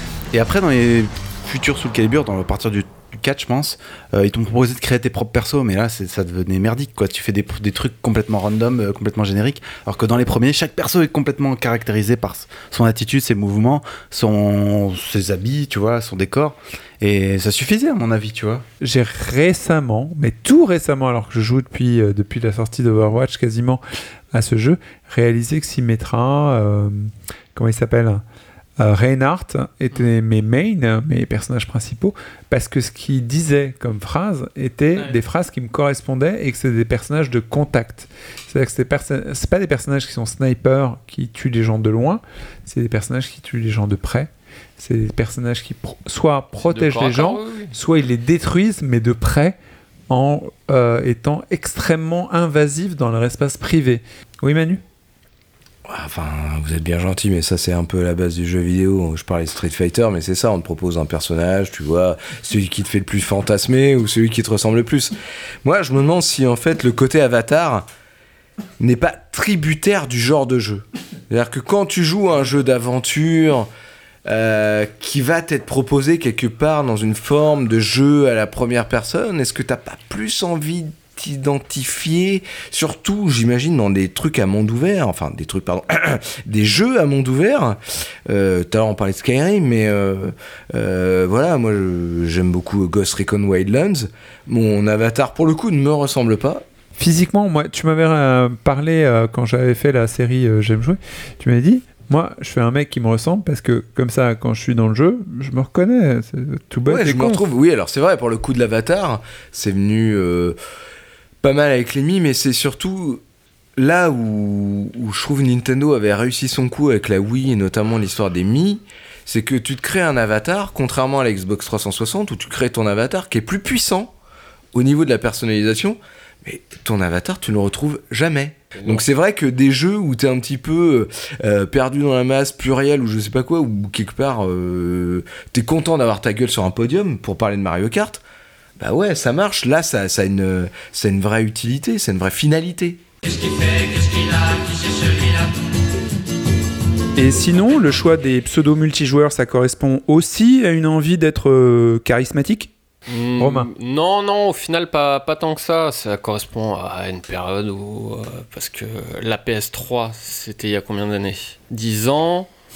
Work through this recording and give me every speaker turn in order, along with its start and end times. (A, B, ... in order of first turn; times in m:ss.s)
0:00.3-0:18.6 A
0:18.8-0:28.2 B
0:28.8-0:49.6 B
0:46.6-0:47.7 C
0:50.1-0:54.8 B
0:55.9-1:05.1 D
1:05.6-1:07.9 D
1:08.8-1:13.7 D
1:14.3-1:36.6 D
1:37.0-1:47.4 B
1:46.9-1:50.6 D
1:51.4-1:53.2 D
1:53.8-2:04.1 D
2:04.7-2:18.2 D
2:18.8-2:23.0 D
2:24.0-2:24.6 C
2:27.2-2:32.7 B
2:33.1-2:42.5 C
2:33.4-2:33.7 B